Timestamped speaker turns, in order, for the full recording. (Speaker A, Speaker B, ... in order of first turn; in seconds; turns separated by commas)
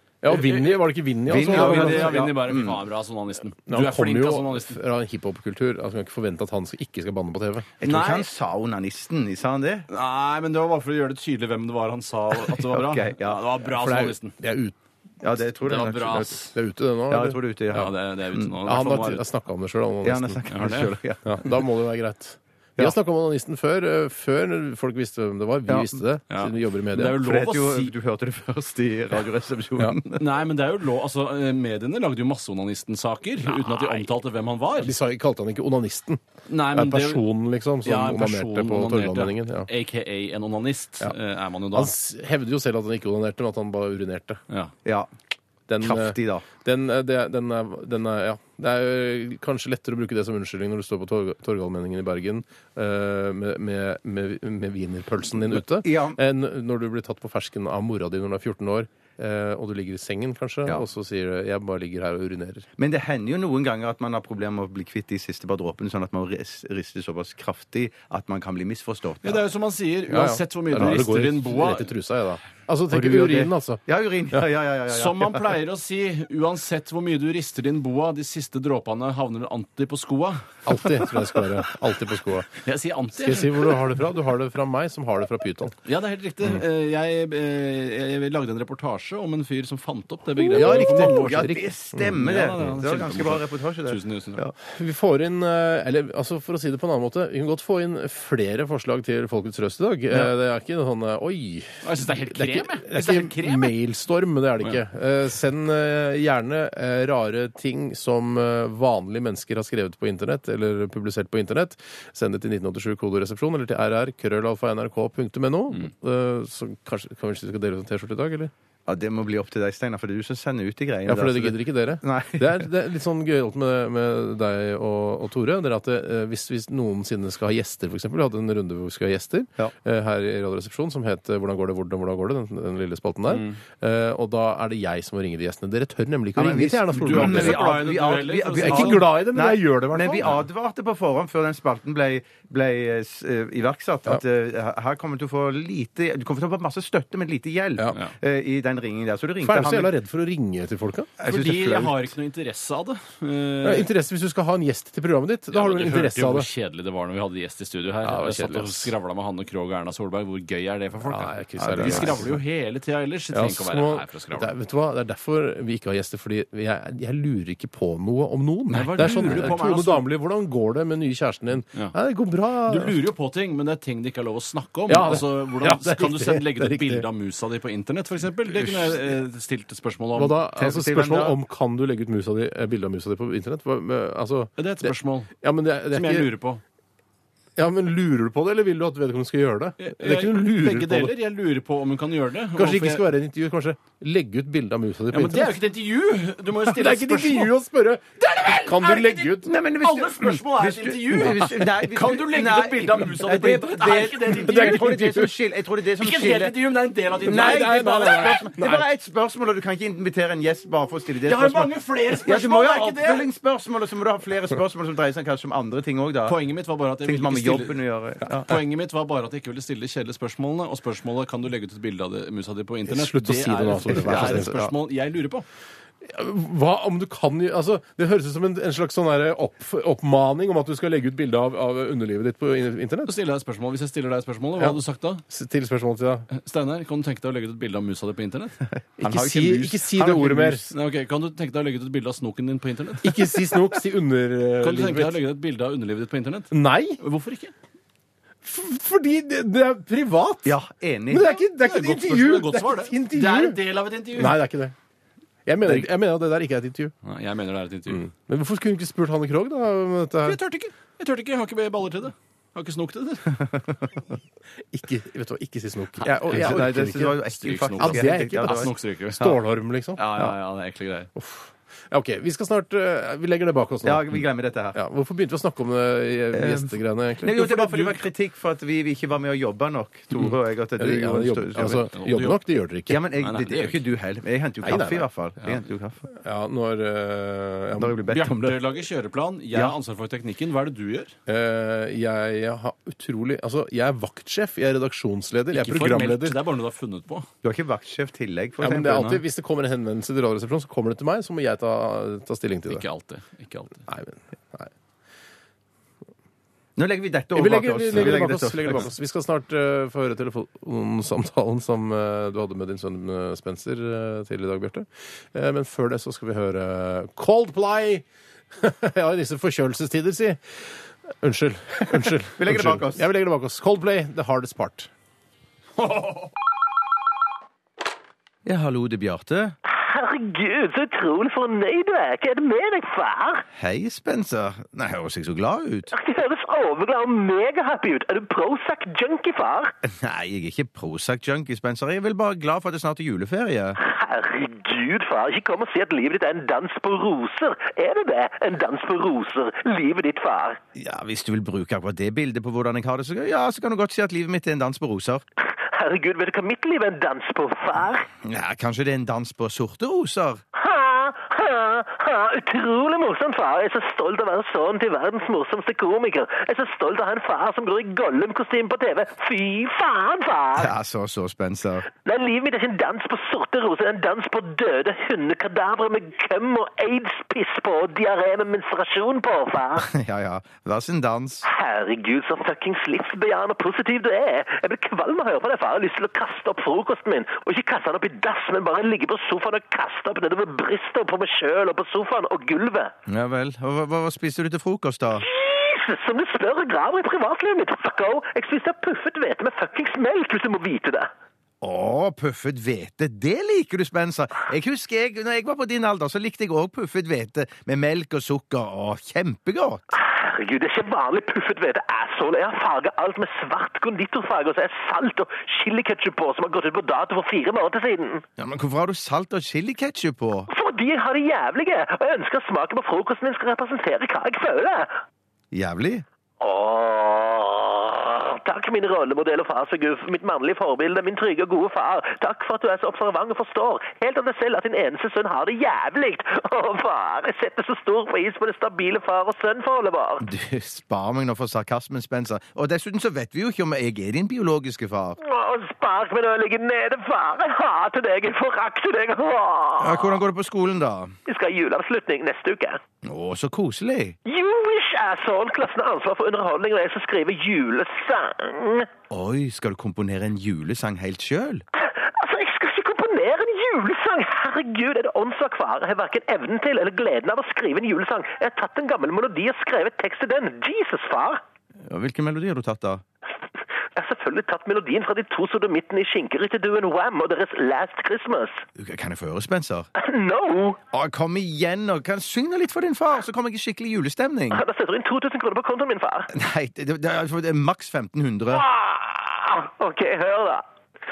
Speaker A: 0.2-2.2, Speaker B: 0.3-4.8, Speaker C: 1.3-2.8, Speaker A: 3.7-7.7, Speaker C: 7.8-9.8, Speaker B: 7.8-8.3, Speaker B: 9.9-14.4, Speaker C: 12.5-13.5, Speaker A: 13.7-14.8, Speaker C: 15.2-16.4, Speaker B: 15.6-16.5, Speaker A: 16.4-17.9, Speaker C: 17.1-18.5, Speaker B: 17.7-19.2, Speaker A: 18.6-20.4, Speaker C: 20.0-21.6, Speaker B: 20.5-20.9, Speaker A: 21.2-27.2, Speaker C: 25.7-26.0, Speaker B: 26.3-27.9, Speaker C: 27.1-30.2, Speaker B: 30.1-34.9, Speaker A: 34.8-36.2, Speaker B: 36.5-37.2, Speaker A: 36.7-39.7, Speaker B: 37.8-41.9, Speaker A: 41.7-44.4, Speaker C: 44.8-45.1, Speaker A: 45.7-62.7, Speaker C: 45.8-46.5, Speaker C: 55.7-56.2, Speaker C: 62.8-69.4, Speaker B: 69.2-71.9, Speaker A: 70.1-74.5, Speaker C: 72.9-75.5, Speaker B: 74.9-81.0, Speaker A: 80.6-82.5, Speaker B: 82.6-83.8, Speaker A: 83.1-85.8, Speaker B: 85.8-91.5, Speaker A: 90.4-92.2, Speaker C: 90.5-94.5, Speaker B: 92.1-94.5, Speaker A: 94.6-118.5, Speaker B: 101.8-103.7, Speaker C: 118.8-122.7, Speaker A: 121.0-137.8, Speaker B: 133.3-133.6, Speaker C: 136.3-149.9, Speaker B: 136.9-139.1, Speaker A: 138.5-140.4, Speaker A: 149.4-151.1, Speaker C: 151.2-152.1, Speaker B: 151.2-153.9, Speaker A: 153.6-156.5, Speaker B: 155.5-164.5, Speaker A: 158.0-158.9, Speaker A: 161.0-162.4, Speaker C: 161.7-162.2, Speaker A: 163.3-173.0, Speaker B: 168.7-170.1, Speaker C: 168.8-169.5, Speaker B: 172.7-180.4, Speaker A: 174.9-177.1, Speaker A: 178.5-178.9, Speaker A: 180.1-186.3, Speaker C: 180.6-181.3, Speaker B: 184.6-185.3, Speaker B: 185.9-186.6, Speaker A: 187.6-191.1, Speaker B: 189.8-193.1, Speaker A: 192.5-195.6, Speaker B: 195.1-197.5, Speaker A: 196.7-199.5, Speaker B: 198.2-205.0, Speaker C: 199.4-206.6, Speaker A: 204.3-205.3, Speaker B: 206.0-208.3, Speaker C: 207.2-216.4, Speaker A: 207.2-208.8, Speaker B: 211.2-213.3, Speaker B: 216.2-225.4, Speaker C: 217.0-218.6, Speaker A: 222.9-224.7, Speaker C: 224.1-224.4, Speaker A: 226.0-233.1, Speaker B: 233.1-235.2, Speaker A: 234.6-236.3, Speaker B: 236.3-238.6, Speaker C: 239.0-240.6, Speaker A: 239.0-240.7, Speaker B: 240.7-243.1, Speaker A: 243.0-245.2, Speaker B: 244.6-247.5, Speaker A: 246.5-247.0, Speaker A: 248.4-250.6, Speaker C: 250.4-251.4, Speaker A: 251.1-254.7, Speaker B: 251.6-254.4, Speaker A: 255.4-256.9, Speaker B: 257.0-258.1, Speaker A: 257.9-260.4, Speaker B: 260.2-263.4, Speaker A: 264.7-267.2, Speaker C: 266.1-269.3, Speaker B: 266.3-266.7, Speaker B: 267.3-269.2, Speaker A: 267.8-270.3, Speaker B: 269.9-271.1, Speaker A: 271.1-274.2, Speaker C: 273.8-274.8, Speaker A: 274.7-277.5, Speaker C: 276.3-281.9, Speaker B: 277.4-278.0, Speaker A: 280.8-283.0, Speaker B: 281.9-282.4, Speaker C: 282.9-286.0, Speaker B: 283.2-283.8, Speaker A: 284.6-285.1, Speaker A: 286.1-288.0, Speaker C: 287.8-288.6, Speaker B: 288.1-291.1, Speaker A: 291.3-296.4, Speaker B: 295.5-297.3, Speaker C: 297.4-299.2, Speaker A: 298.6-302.8, Speaker B: 302.7-303.9, Speaker A: 303.9-304.7, Speaker C: 306.8-308.9, Speaker A: 307.3-324.9, Speaker C: 321.9-323.1, Speaker B: 325.8-326.3, Speaker C: 328.4-329.6, Speaker D: 329.6-333.4, Speaker C: 333.5-335.9, Speaker D: 335.9-339.7, Speaker C: 339.9-343.8, Speaker D: 343.8-350.6, Speaker C: 350.7-355.2, Speaker D: 355.4-358.1, Speaker C: 358.2-360.4, Speaker D: 360.5-370.7, Speaker C: 370.6-371.9, Speaker D: 371.9-379.9, Speaker C: 379.8-381.4, Speaker D: 381.4-392.9, Speaker C: 393.1-395.2, Speaker D: 395.2-401.1, Speaker C: 401.6-409.8, Speaker D: 409.9-418.2, Speaker C: 418.4-420.5, Speaker D: 420.5-425.0, Speaker C: 425.5-426.0, Speaker D: 426.4-440.2, Speaker C: 440.2-445.2, Speaker D: 445.2-450.2, Speaker C: 449.8-451.1, Speaker D: 451.3-452.8, Speaker C: 453.0-454.2, Speaker D: 454.2-458.9, Speaker C: 459.1-461.6, Speaker D: 461.8-471.4, Speaker C: 471.8-473.0, Speaker D: 473.9-478.6, Speaker C: 478.8-479.9, Speaker D: 480.0-480.8, Speaker C: 480.9-484.6, Speaker D: 484.5-486.3, Speaker C: 486.3-488.6, Speaker D: 488.5-490.6